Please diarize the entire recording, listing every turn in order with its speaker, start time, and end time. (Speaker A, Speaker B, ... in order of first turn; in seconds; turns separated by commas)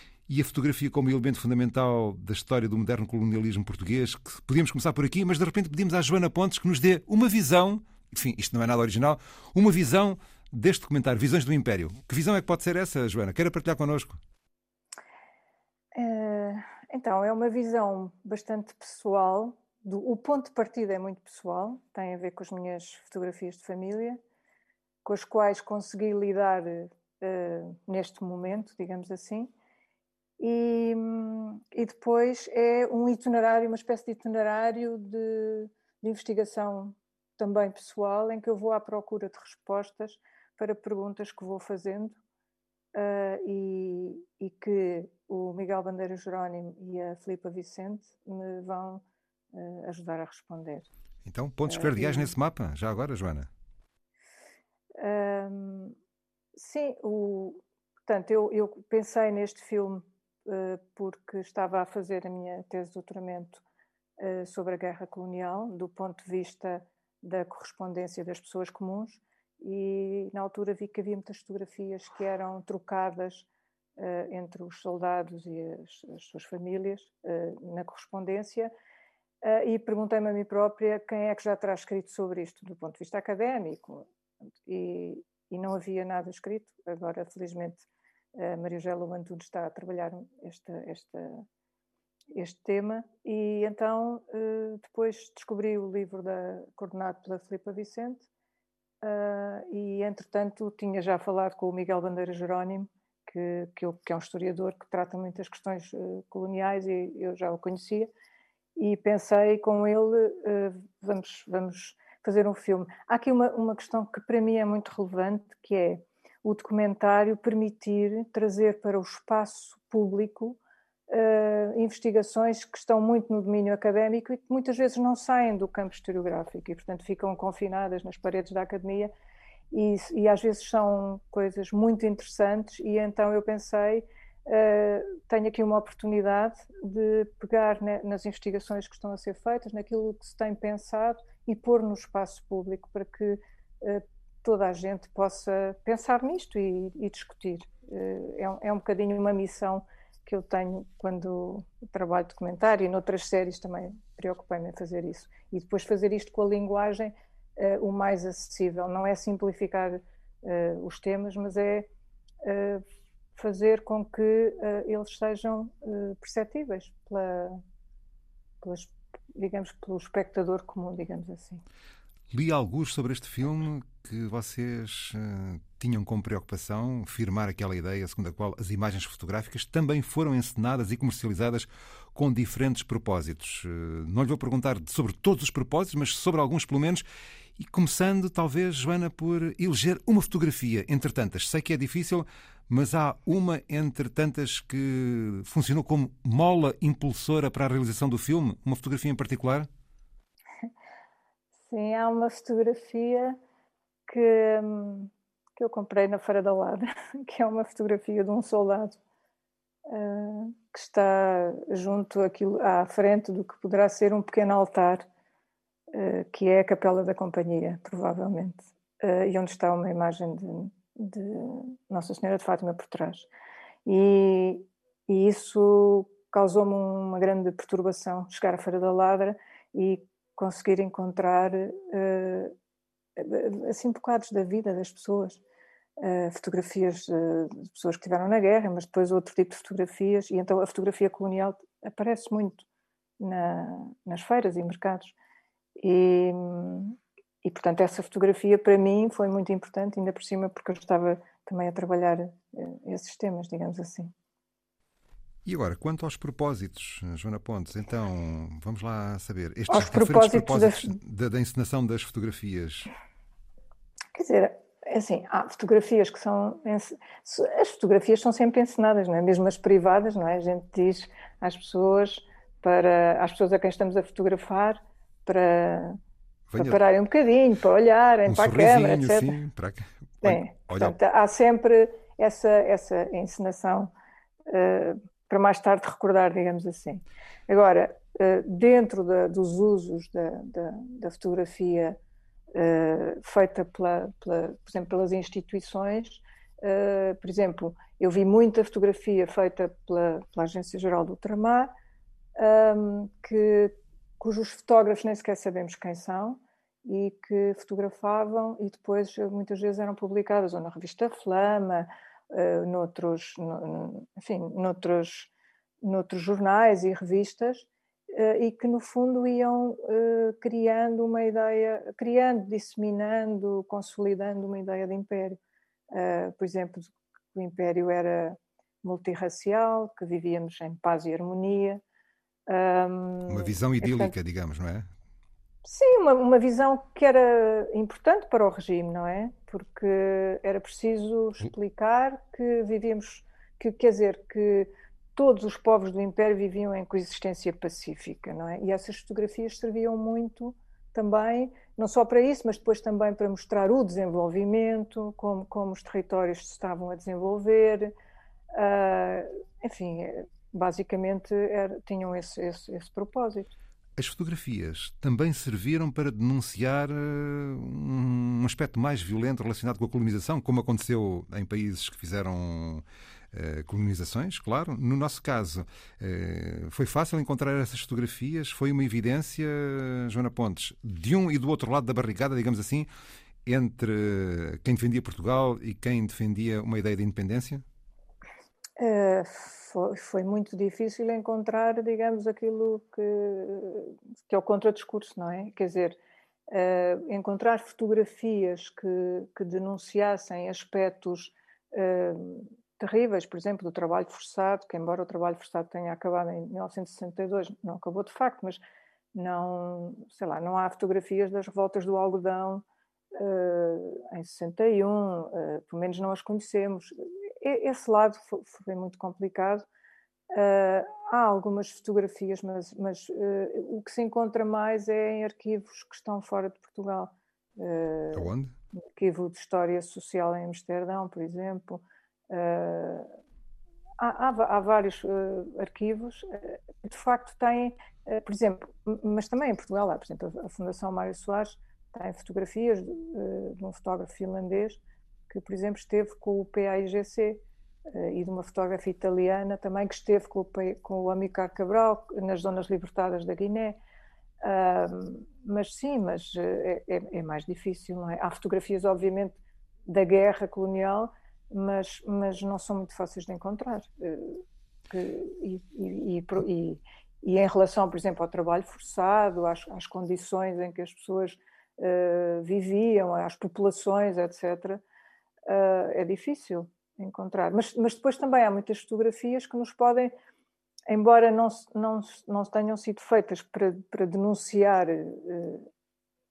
Speaker A: 0.3-14.2, Speaker B: 15.9-24.2, Speaker B: 25.0-29.5, Speaker B: 30.4-42.2, Speaker B: 42.9-50.9, Speaker A: 51.2-53.5, Speaker B: 51.7-52.3, Speaker B: 55.0-56.0, Speaker B: 56.5-63.6, Speaker B: 64.2-78.7, Speaker B: 79.4-84.0, Speaker B: 84.6-91.4, Speaker B: 92.3-98.3, Speaker B: 99.0-108.1, Speaker B: 108.8-129.1, Speaker B: 129.7-161.9, Speaker B: 162.4-162.8, Speaker B: 163.3-167.6, Speaker B: 168.6-171.6, Speaker A: 172.3-187.0, Speaker A: 187.6-199.7, Speaker B: 201.6-203.4, Speaker B: 204.1-209.0, Speaker B: 209.8-215.1, Speaker B: 215.9-223.3, Speaker B: 223.8-232.5, Speaker B: 233.2-235.4, Speaker B: 236.0-242.7, Speaker B: 243.2-245.1, Speaker B: 245.8-254.1, Speaker A: 255.4-262.9, Speaker B: 259.7-260.9, Speaker B: 264.1-276.0, Speaker A: 276.5-276.8, Speaker B: 276.6-279.3, Speaker A: 278.3-280.9, Speaker B: 280.2-283.9, Speaker B: 284.5-292.0, Speaker B: 292.5-301.7, Speaker B: 302.4-315.3, Speaker B: 315.8-325.4, Speaker B: 325.9-331.8, Speaker B: 332.5-334.1, Speaker A: 333.3-334.9, Speaker B: 335.6-357.9, Speaker B: 358.5-363.5, Speaker A: 364.0-382.9, Speaker A: 383.4-387.6, Speaker B: 388.8-396.0, Speaker B: 396.5-408.6, Speaker B: 409.1-419.6, Speaker B: 420.3-428.3, Speaker A: 428.1-428.5, Speaker B: 428.9-433.1, Speaker B: 434.0-453.8, Speaker B: 454.4-474.8, Speaker B: 475.4-480.1, Speaker B: 480.9-485.7